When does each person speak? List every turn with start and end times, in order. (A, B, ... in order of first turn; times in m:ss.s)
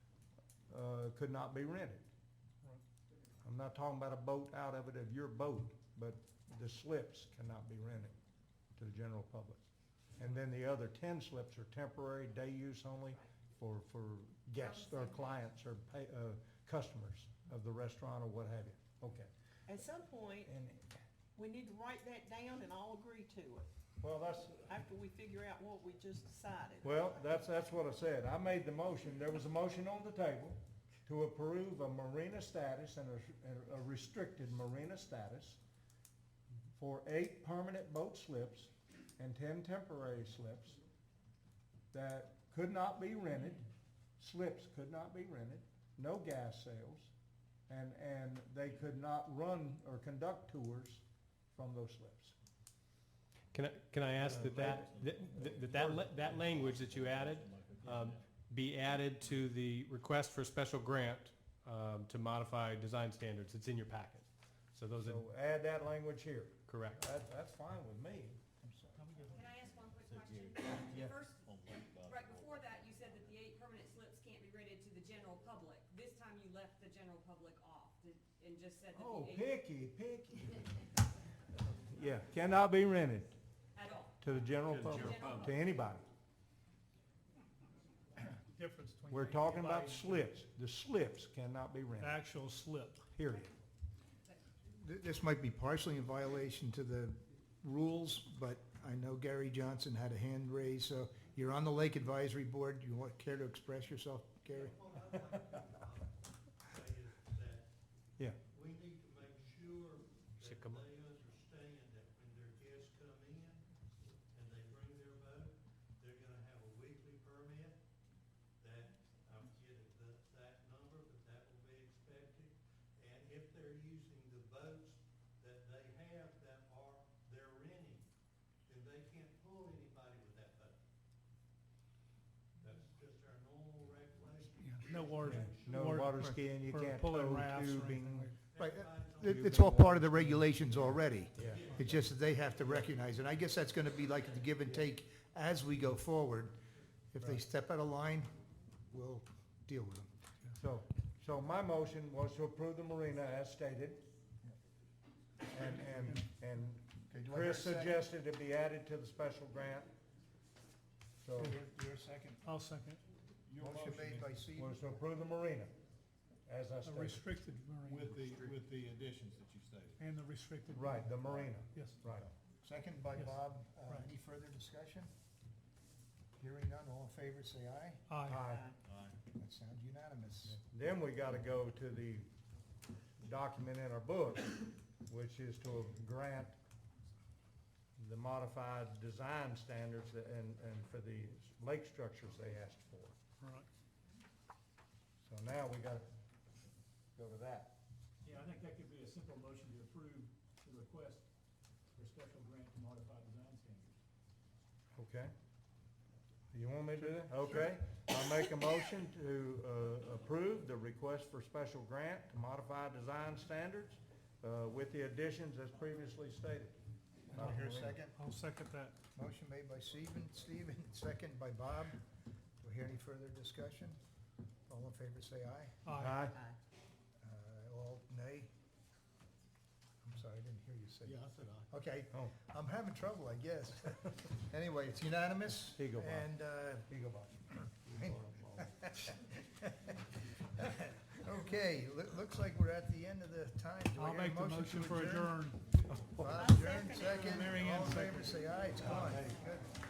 0:00.7-0:02.0 A
0:03.4-0:08.2 A
0:08.8-0:09.6 A
0:10.2-0:19.3 A
0:14.6-0:15.4 B
0:20.4-0:20.9 A
0:21.6-0:23.5 C
0:24.0-0:24.6 A
0:25.0-0:26.8 C
0:26.8-0:35.6 A
0:36.8-0:40.8 A
0:41.9-0:43.7 A
0:44.2-0:47.1 A
0:47.7-0:51.0 A
0:51.5-0:52.3 A
0:53.5-1:05.2 D
0:54.2-0:55.0 A
0:54.3-0:58.2 E
0:55.7-0:56.2 A
1:05.0-1:08.4 A
1:06.7-1:07.0 D
1:08.6-1:09.3 F
1:09.2-1:19.5 B
1:09.7-1:13.3 E
1:18.9-1:20.8 A
1:21.8-1:23.3 A
1:23.8-1:24.2 B
1:24.2-1:26.1 A
1:24.7-1:25.6 B
1:24.7-1:25.5 E
1:28.4-1:30.3 G
1:29.1-1:32.2 A
1:32.0-1:33.1 G
1:33.2-1:33.5 A
1:34.7-1:44.7 F
1:44.5-1:47.7 H
1:48.5-1:57.8 H
1:50.4-1:50.8 D
1:58.6-2:08.1 H
2:08.7-2:10.8 H
2:12.6-2:15.8 H
2:14.7-2:18.4 G
2:15.2-2:18.3 A
2:18.5-2:19.5 H
2:18.6-2:26.6 F
2:19.2-2:20.3 A
2:21.4-2:21.7 A
2:21.4-2:21.8 H
2:27.1-2:28.3 F
2:28.9-2:30.1 F
2:30.6-2:34.0 A
2:35.5-2:39.9 A
2:35.6-2:36.2 G
2:37.1-2:38.0 F
2:41.2-2:41.6 A
2:41.4-2:42.4 F
2:42.4-2:43.0 G
2:43.5-2:44.2 E
2:43.6-2:45.0 F
2:44.5-2:45.7 A
2:46.5-2:47.2 A
2:46.8-2:48.2 G
2:47.9-2:50.0 E
2:50.0-2:52.0 G
2:50.7-2:52.3 A
2:52.5-2:55.1 F
2:53.2-2:54.1 G
2:56.4-2:58.0 F
2:58.1-2:58.5 G
2:58.2-2:58.7 A
2:58.8-2:59.2 E
2:59.3-3:00.6 F
3:00.5-3:02.3 A
3:03.2-3:06.6 A
3:08.0-3:13.2 A
3:13.4-3:13.7 G
3:15.3-3:16.1 A
3:17.2-3:17.7 A
3:18.2-3:21.2 I
3:22.0-3:24.0 I
3:25.0-3:25.3 A
3:26.5-3:36.8 A
3:37.3-3:38.2 F
3:37.3-3:38.0 A
3:38.1-3:39.0 G
3:39.2-3:42.0 F
3:42.6-3:44.0 F
3:44.7-3:45.8 F
3:45.8-3:46.3 G
3:45.9-3:46.4 A
3:47.2-3:48.5 F
3:50.0-3:57.0 F
3:55.8-3:56.3 A
3:56.9-3:58.7 A
3:58.0-4:00.0 F
4:00.6-4:05.4 F
4:04.0-4:05.7 G
4:05.9-4:06.4 A
4:06.2-4:09.7 F
4:07.0-4:07.4 D
4:07.2-4:09.1 G
4:08.8-4:09.4 A